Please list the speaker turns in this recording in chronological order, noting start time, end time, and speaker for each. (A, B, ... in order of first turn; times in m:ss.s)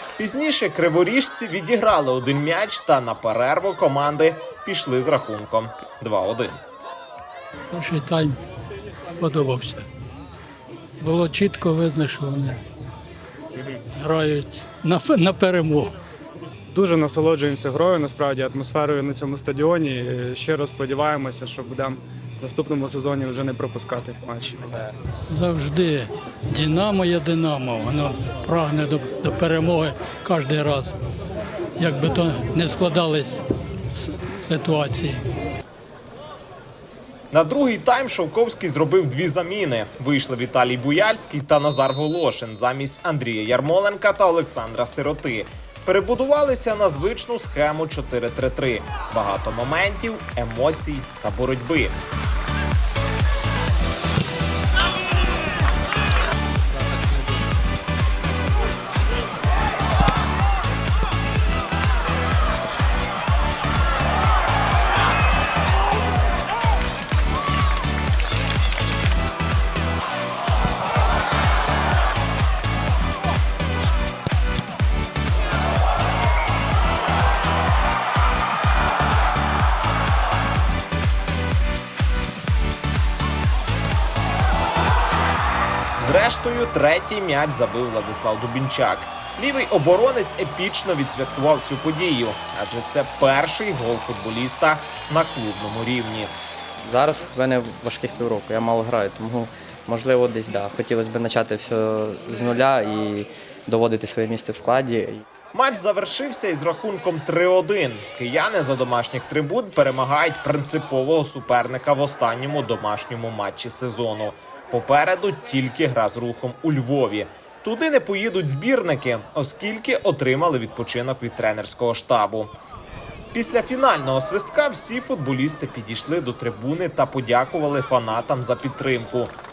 0:00.2-0:06.6 A
0:07.7-0:08.4 B
0:09.2-0:09.8 B
0:11.0-0:12.6 B
0:14.0-0:15.9 B
0:16.7-0:24.9 C
0:25.3-0:31.0 B
0:31.8-0:35.2 B
0:37.3-0:52.0 A
1:26.0-1:36.3 A
1:36.8-1:45.2 D
1:45.5-2:02.5 A
2:03.3-2:09.3 A